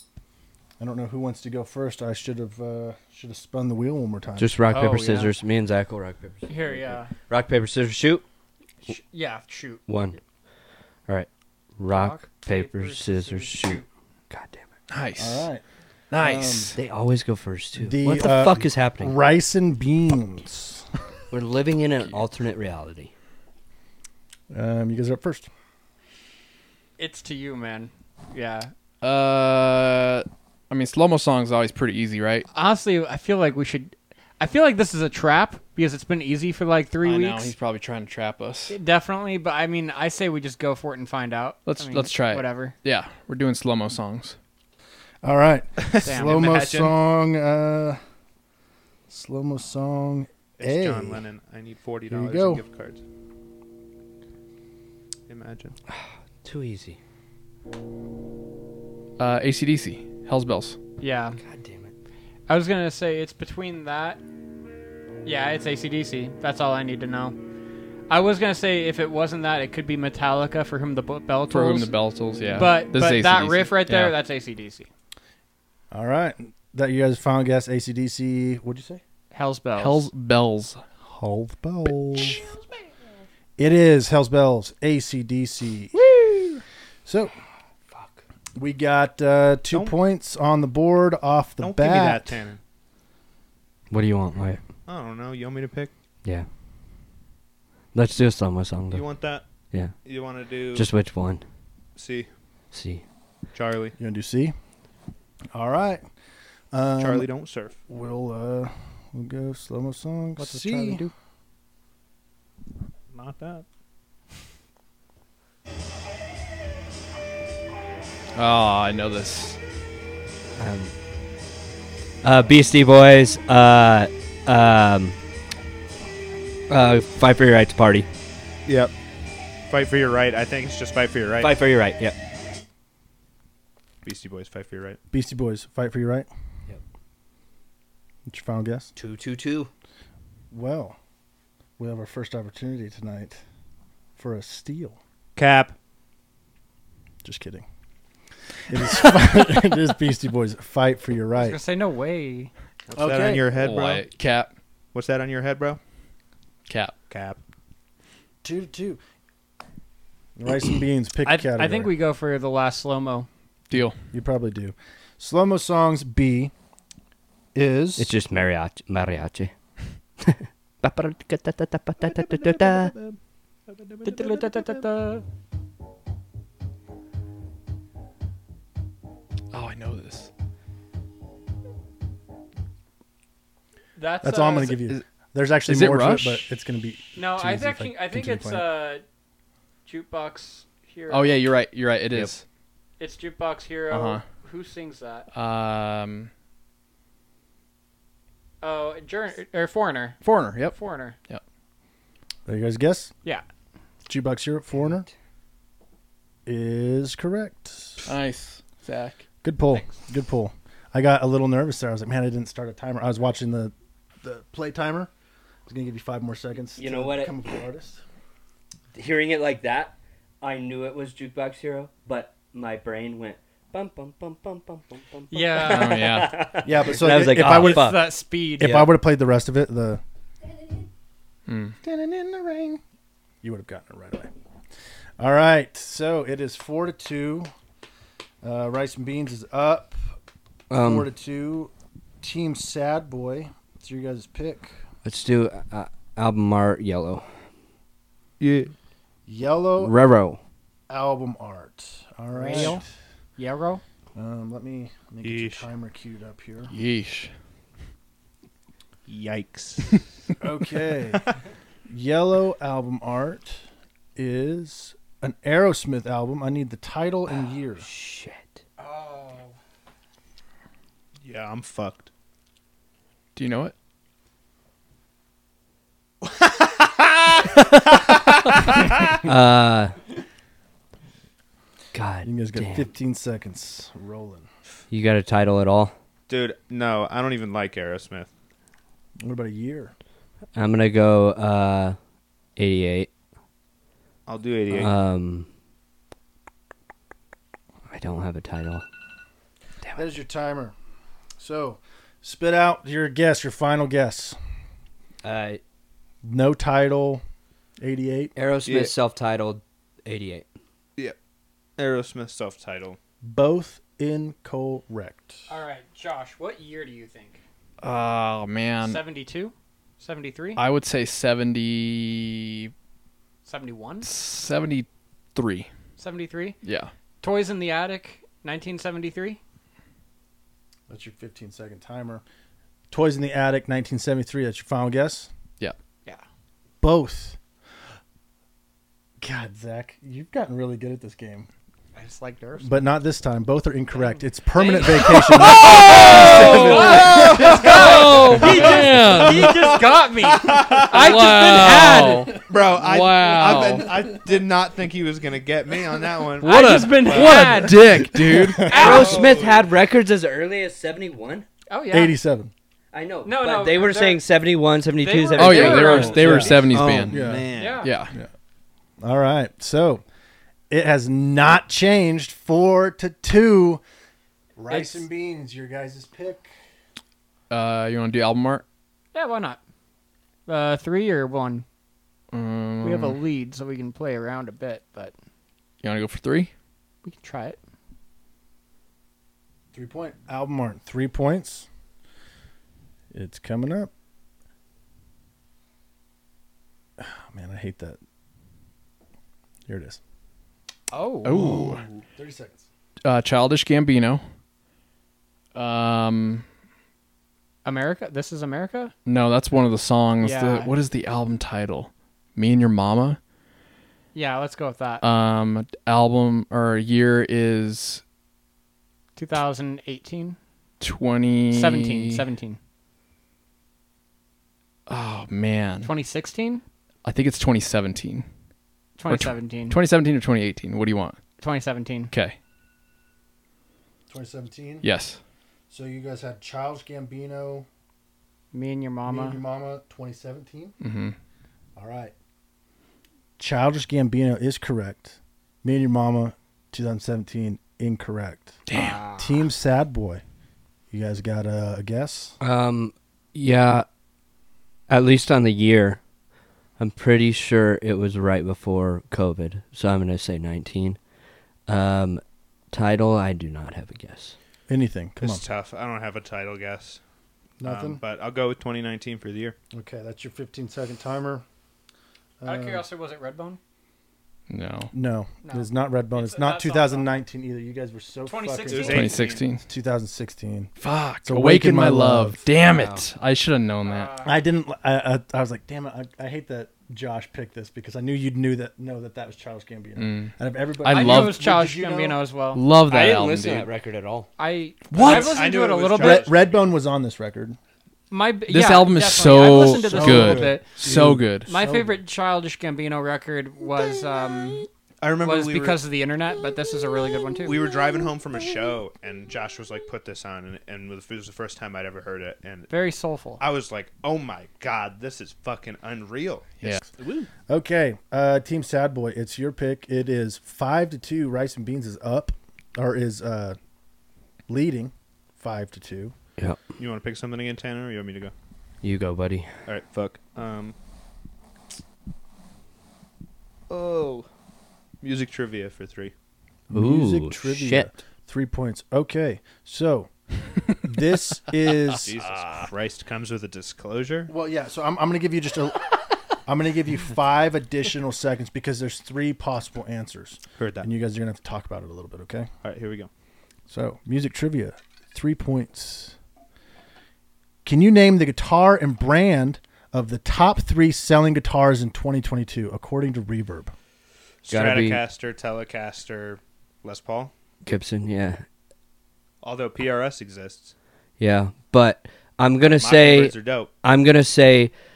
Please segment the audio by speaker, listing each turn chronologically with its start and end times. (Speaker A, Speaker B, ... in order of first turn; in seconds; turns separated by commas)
Speaker A: 0.8-4.6, Speaker B: 4.4-8.2, Speaker C: 4.7-5.3, Speaker C: 6.5-7.1, Speaker C: 8.8-9.8, Speaker B: 9.9-10.2, Speaker B: 11.1-14.7, Speaker C: 11.9-13.9, Speaker D: 14.9-15.5, Speaker A: 15.2-15.6, Speaker D: 16.1-16.8, Speaker A: 16.2-16.8, Speaker B: 16.8-19.1, Speaker A: 17.8-20.9, Speaker B: 21.3-23.1, Speaker A: 24.5-25.5, Speaker C: 27.0-28.7, Speaker D: 29.0-32.5, Speaker C: 32.5-37.5, Speaker D: 37.0-38.8, Speaker C: 38.7-42.8, Speaker D: 41.6-44.4, Speaker A: 45.2-48.0, Speaker E: 45.8-47.0, Speaker C: 46.0-46.6, Speaker A: 49.1-51.2, Speaker E: 50.6-53.0, Speaker A: 52.1-52.6, Speaker E: 55.3-55.8, Speaker B: 55.9-57.0, Speaker D: 59.2-60.8, Speaker C: 61.0-61.4, Speaker B: 61.4-61.9, Speaker C: 62.5-64.2, Speaker C: 65.2-67.4, Speaker C: 68.1-71.9, Speaker D: 71.5-74.2, Speaker C: 72.5-74.9, Speaker A: 75.9-79.0, Speaker C: 79.3-80.1, Speaker D: 79.8-80.8, Speaker A: 81.0-82.4, Speaker D: 82.2-82.4, Speaker A: 83.6-86.5, Speaker A: 87.1-87.3, Speaker B: 87.9-88.2, Speaker A: 88.5-92.4, Speaker E: 89.7-90.0, Speaker E: 91.6-92.6, Speaker B: 93.9-94.6, Speaker E: 94.9-95.9, Speaker B: 97.9-99.1, Speaker E: 98.9-99.4, Speaker E: 100.0-100.9, Speaker B: 100.7-101.4, Speaker E: 102.0-102.3, Speaker B: 102.7-103.0, Speaker E: 103.5-104.0, Speaker A: 104.0-104.5, Speaker A: 105.5-106.0, Speaker A: 106.7-107.3, Speaker E: 107.0-107.8, Speaker A: 107.9-111.0, Speaker C: 110.4-111.1, Speaker E: 113.1-113.7, Speaker D: 118.3-119.6, Speaker B: 120.6-120.9, Speaker B: 122.2-125.2, Speaker B: 126.7-128.1, Speaker E: 128.7-128.9, Speaker E: 129.7-131.5, Speaker B: 131.4-132.2, Speaker E: 134.0-135.0, Speaker A: 135.1-136.3, Speaker A: 138.3-138.9, Speaker B: 139.0-139.7, Speaker A: 140.5-141.0, Speaker A: 141.8-143.4, Speaker A: 144.2-145.0, Speaker E: 145.4-145.7, Speaker A: 147.2-147.7, Speaker A: 148.7-151.6, Speaker C: 151.4-152.5, Speaker E: 152.9-154.1, Speaker A: 153.0-153.5, Speaker D: 153.6-154.5, Speaker E: 154.9-155.8, Speaker D: 156.7-156.9, Speaker E: 157.1-157.4, Speaker A: 158.4-159.0, Speaker A: 160.4-161.9, Speaker C: 161.2-163.3, Speaker D: 163.7-164.0, Speaker A: 164.1-166.5, Speaker A: 167.5-168.1, Speaker B: 168.0-169.5, Speaker B: 170.2-172.9, Speaker E: 172.1-172.9, Speaker E: 173.7-174.7, Speaker C: 174.0-175.2, Speaker D: 179.5-180.3, Speaker C: 184.0-184.8, Speaker A: 184.2-188.7, Speaker D: 185.7-186.5, Speaker C: 187.2-189.0, Speaker C: 189.9-191.5, Speaker D: 191.1-192.4, Speaker C: 193.0-195.3, Speaker D: 193.9-194.2, Speaker D: 195.3-196.3, Speaker C: 198.6-201.2, Speaker D: 200.2-200.8, Speaker A: 202.5-203.1, Speaker A: 204.1-205.1, Speaker A: 206.5-208.1, Speaker D: 208.1-209.2, Speaker A: 209.4-215.1, Speaker A: 215.7-218.0, Speaker B: 216.8-217.4, Speaker B: 218.9-228.1, Speaker C: 225.3-226.1, Speaker D: 225.6-226.4, Speaker A: 226.6-228.0, Speaker C: 227.3-228.8, Speaker A: 228.6-230.0, Speaker B: 228.6-228.9, Speaker D: 231.5-231.8, Speaker A: 231.8-232.8, Speaker A: 233.4-234.3, Speaker A: 235.2-237.5, Speaker A: 238.4-240.0, Speaker B: 240.7-241.1, Speaker A: 240.7-244.7, Speaker B: 245.1-247.3, Speaker E: 248.4-248.7, Speaker A: 249.3-249.9, Speaker B: 249.8-250.4, Speaker A: 250.9-252.9, Speaker C: 252.4-252.8, Speaker C: 253.4-253.8, Speaker A: 254.2-256.8, Speaker E: 255.2-255.7, Speaker D: 256.7-257.3, Speaker E: 259.1-260.0, Speaker A: 260.4-261.3, Speaker A: 261.9-263.6, Speaker A: 264.2-267.9, Speaker B: 267.8-268.6, Speaker C: 268.8-269.5, Speaker E: 271.2-272.1, Speaker D: 273.4-273.7, Speaker E: 276.4-277.6, Speaker E: 278.7-279.1, Speaker B: 279.2-280.0, Speaker B: 281.9-282.9, Speaker A: 282.2-284.5, Speaker B: 284.9-285.9, Speaker E: 286.3-288.3, Speaker A: 289.2-289.9, Speaker B: 290.6-292.0, Speaker B: 292.6-293.1, Speaker E: 294.3-294.9, Speaker B: 294.7-295.5, Speaker B: 297.9-298.9, Speaker A: 299.9-300.7, Speaker A: 301.4-304.4, Speaker B: 305.2-305.6, Speaker A: 306.2-307.2, Speaker A: 307.8-308.3, Speaker B: 308.4-310.5, Speaker E: 308.6-308.9, Speaker E: 311.8-313.0, Speaker A: 313.2-315.4, Speaker C: 315.5-317.4, Speaker D: 317.8-319.0, Speaker C: 318.8-320.6, Speaker D: 320.6-322.7, Speaker C: 323.5-324.1, Speaker D: 324.0-325.7, Speaker C: 326.0-326.6, Speaker D: 326.6-326.9, Speaker C: 327.2-329.4, Speaker A: 330.9-332.2, Speaker A: 332.9-335.3, Speaker A: 336.8-337.4, Speaker A: 339.2-341.5, Speaker C: 341.9-342.8, Speaker A: 342.6-348.7, Speaker C: 344.5-352.3, Speaker D: 345.1-349.7, Speaker E: 347.0-347.8, Speaker E: 349.4-351.3, Speaker D: 350.9-353.9, Speaker E: 352.4-357.6, Speaker D: 356.4-358.8, Speaker C: 356.4-358.1, Speaker A: 358.1-359.0, Speaker C: 358.6-359.4, Speaker E: 358.6-359.7, Speaker B: 358.7-361.5, Speaker C: 361.7-362.2, Speaker A: 361.9-362.5, Speaker B: 362.9-367.0, Speaker C: 363.2-364.2, Speaker C: 365.0-366.6, Speaker D: 365.3-367.2, Speaker A: 365.9-367.5, Speaker E: 366.7-367.8, Speaker C: 367.6-367.9, Speaker D: 367.8-368.1, Speaker A: 369.0-370.0, Speaker A: 370.7-373.8, Speaker A: 374.6-376.5, Speaker C: 374.7-375.1, Speaker D: 377.5-378.6, Speaker C: 379.1-379.6, Speaker C: 380.5-381.6, Speaker D: 382.3-383.2, Speaker C: 382.8-385.1, Speaker D: 385.8-386.5, Speaker C: 387.0-387.6, Speaker A: 389.7-391.7, Speaker A: 393.1-393.9, Speaker A: 397.0-398.0, Speaker A: 399.7-400.0, Speaker C: 400.9-401.8, Speaker D: 401.2-401.9, Speaker A: 402.1-402.7, Speaker D: 403.0-404.2, Speaker D: 405.5-406.4, Speaker C: 407.6-408.9, Speaker D: 409.1-413.2, Speaker C: 410.2-410.7, Speaker C: 414.1-415.1, Speaker D: 415.0-418.0, Speaker C: 419.2-420.4, Speaker D: 420.8-422.2, Speaker C: 421.5-422.6, Speaker D: 424.9-425.9, Speaker C: 425.8-426.6, Speaker D: 427.0-428.3, Speaker C: 429.0-429.8, Speaker D: 429.1-431.2, Speaker C: 431.4-432.1, Speaker D: 432.1-432.4, Speaker A: 434.1-434.9, Speaker D: 434.8-435.2, Speaker A: 435.7-437.7, Speaker C: 438.5-439.4, Speaker A: 439.1-440.8, Speaker D: 440.8-441.1, Speaker A: 441.8-442.1, Speaker A: 443.4-448.6, Speaker D: 448.7-449.0, Speaker C: 448.7-449.4, Speaker A: 449.2-450.2, Speaker A: 450.9-452.4, Speaker B: 452.4-453.9, Speaker B: 454.9-456.0, Speaker B: 456.8-461.0, Speaker B: 461.7-464.4, Speaker A: 464.7-465.4, Speaker E: 465.2-467.0, Speaker A: 467.6-468.0, Speaker E: 467.6-469.6, Speaker A: 469.7-471.4, Speaker A: 472.4-472.9, Speaker C: 472.4-473.6, Speaker D: 474.5-474.9, Speaker A: 474.9-479.1, Speaker C: 475.4-477.2, Speaker C: 478.3-479.1, Speaker E: 478.7-479.4, Speaker D: 478.9-479.6, Speaker A: 479.7-480.7, Speaker D: 480.8-484.1, Speaker A: 481.2-482.4, Speaker B: 482.7-483.0, Speaker C: 483.8-484.4, Speaker A: 484.2-492.2, Speaker D: 490.0-491.4, Speaker C: 490.9-492.6, Speaker D: 492.5-493.7, Speaker B: 492.8-494.3, Speaker C: 494.4-496.3, Speaker D: 494.9-495.4, Speaker E: 494.9-496.6, Speaker A: 495.9-497.6, Speaker C: 498.1-500.8, Speaker D: 498.5-501.5, Speaker A: 499.5-502.0, Speaker C: 501.4-504.7, Speaker E: 505.0-505.8, Speaker C: 505.2-507.6, Speaker E: 507.4-512.7, Speaker C: 512.7-513.4, Speaker E: 513.4-517.3, Speaker A: 517.5-523.6, Speaker A: 524.5-526.1, Speaker E: 526.8-528.3, Speaker B: 528.8-529.5, Speaker E: 529.7-530.8, Speaker E: 533.7-534.3, Speaker E: 535.0-536.1, Speaker A: 536.7-540.1, Speaker B: 536.7-537.9, Speaker A: 540.7-542.1, Speaker E: 542.0-544.3, Speaker A: 544.3-545.9, Speaker A: 546.5-552.5, Speaker E: 550.6-550.9, Speaker E: 552.6-553.1, Speaker A: 553.7-556.2, Speaker A: 557.6-563.7, Speaker E: 564.4-567.3, Speaker B: 564.5-565.0, Speaker B: 567.6-568.4, Speaker E: 569.4-570.7, Speaker B: 571.2-574.7, Speaker E: 572.7-573.7